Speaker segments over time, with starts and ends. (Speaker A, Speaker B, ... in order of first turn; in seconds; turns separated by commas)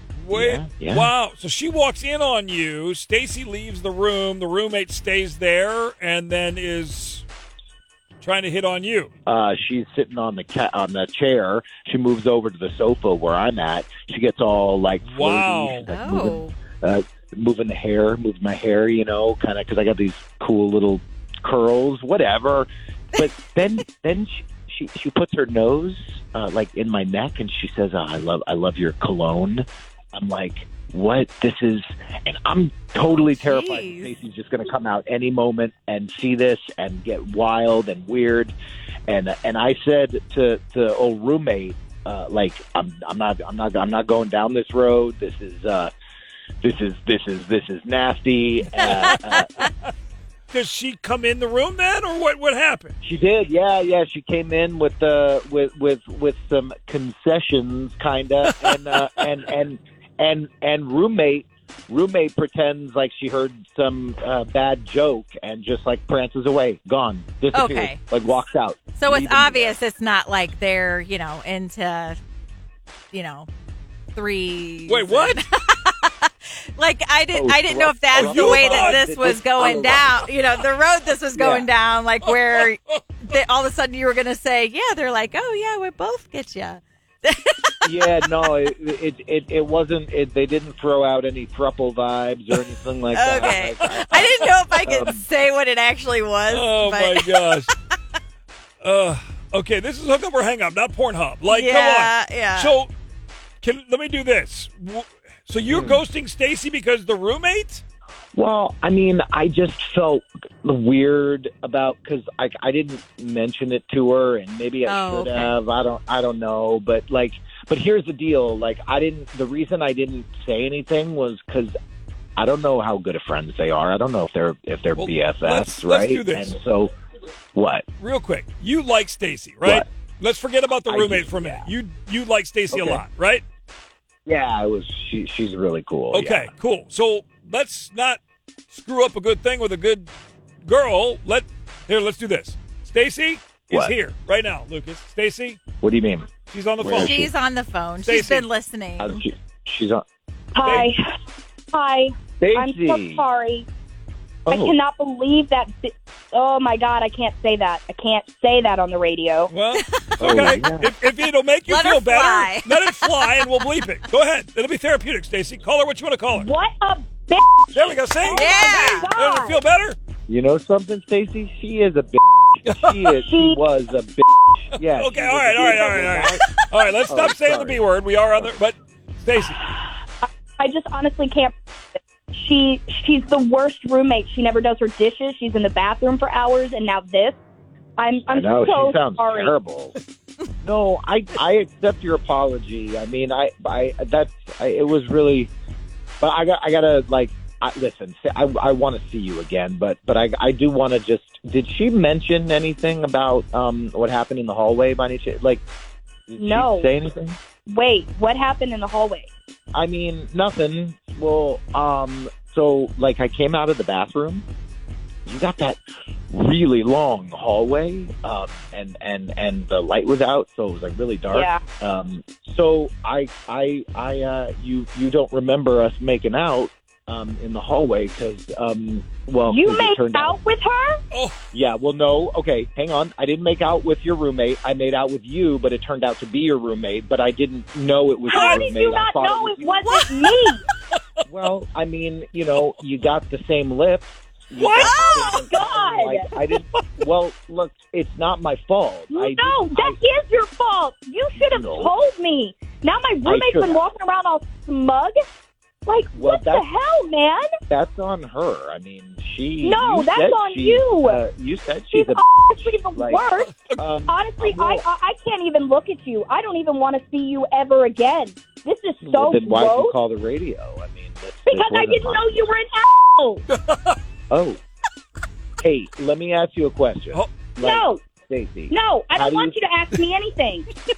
Speaker A: 0.2-7.2, Speaker B: 0.3-1.1, Speaker A: 8.2-9.1, Speaker B: 9.3-38.5, Speaker A: 15.0-15.9, Speaker C: 15.9-16.6, Speaker C: 33.4-34.1, Speaker B: 39.1-45.9, Speaker B: 46.6-49.7, Speaker C: 48.8-49.1, Speaker A: 49.1-49.7, Speaker A: 50.5-52.9, Speaker B: 53.0-69.8, Speaker C: 67.5-68.0, Speaker C: 69.0-72.2, Speaker C: 73.1-73.5, Speaker C: 74.1-88.1, Speaker A: 74.9-75.4, Speaker B: 77.3-80.3, Speaker A: 78.1-79.0, Speaker A: 79.6-79.9, Speaker B: 81.3-81.7, Speaker A: 82.2-83.0, Speaker B: 87.8-95.2, Speaker C: 93.1-97.7, Speaker A: 94.0-94.5, Speaker A: 96.5-97.7, Speaker A: 98.8-102.9, Speaker C: 101.5-102.8, Speaker A: 103.6-107.8, Speaker B: 105.7-106.0, Speaker B: 108.3-121.7, Speaker C: 114.8-115.5, Speaker B: 122.4-126.9, Speaker A: 125.0-126.6, Speaker B: 127.5-127.8, Speaker A: 128.0-133.4, Speaker B: 130.9-131.7, Speaker B: 132.7-133.0, Speaker B: 134.3-136.5, Speaker A: 136.1-140.1, Speaker A: 140.6-145.6, Speaker B: 145.8-147.3, Speaker A: 146.5-147.3, Speaker C: 146.9-149.2, Speaker A: 148.1-148.5, Speaker B: 149.0-150.0, Speaker D: 150.6-151.0, Speaker A: 150.6-150.9, Speaker D: 151.7-153.7, Speaker B: 152.4-153.2, Speaker B: 154.5-154.8, Speaker D: 154.5-159.5, Speaker A: 159.5-166.5, Speaker C: 159.8-160.6, Speaker B: 160.2-160.9, Speaker C: 161.7-163.4, Speaker D: 166.3-169.6, Speaker A: 167.7-170.0, Speaker C: 168.3-169.1, Speaker B: 170.3-176.4, Speaker A: 172.7-173.1, Speaker D: 173.2-173.6, Speaker A: 174.8-179.7, Speaker B: 177.1-177.8, Speaker D: 180.2-181.6, Speaker D: 182.3-187.4, Speaker D: 188.0-189.5, Speaker B: 188.3-189.9, Speaker B: 190.6-195.5, Speaker B: 196.2-205.6, Speaker B: 206.3-207.4, Speaker D: 206.4-206.9, Speaker D: 207.7-209.3, Speaker B: 209.7-214.4, Speaker B: 215.3-215.8, Speaker B: 216.3-230.4, Speaker D: 221.3-221.6, Speaker D: 229.5-231.0, Speaker A: 231.1-231.4, Speaker B: 231.5-239.8, Speaker D: 238.3-240.6, Speaker A: 238.3-238.6, Speaker A: 239.9-240.3, Speaker B: 241.3-250.0, Speaker A: 244.6-245.1, Speaker C: 244.7-245.2, Speaker D: 244.8-246.3, Speaker D: 249.1-255.2, Speaker B: 251.4-251.9, Speaker B: 253.2-253.8, Speaker D: 255.9-257.5, Speaker B: 256.1-256.6, Speaker B: 257.7-262.2, Speaker D: 259.6-261.2, Speaker D: 261.9-263.5, Speaker B: 262.9-264.8, Speaker A: 263.4-263.8, Speaker D: 264.1-269.9, Speaker B: 269.0-272.5, Speaker D: 271.5-273.4, Speaker A: 273.5-274.0, Speaker B: 274.3-274.6, Speaker B: 275.6-279.6, Speaker D: 277.6-278.0, Speaker D: 278.7-280.7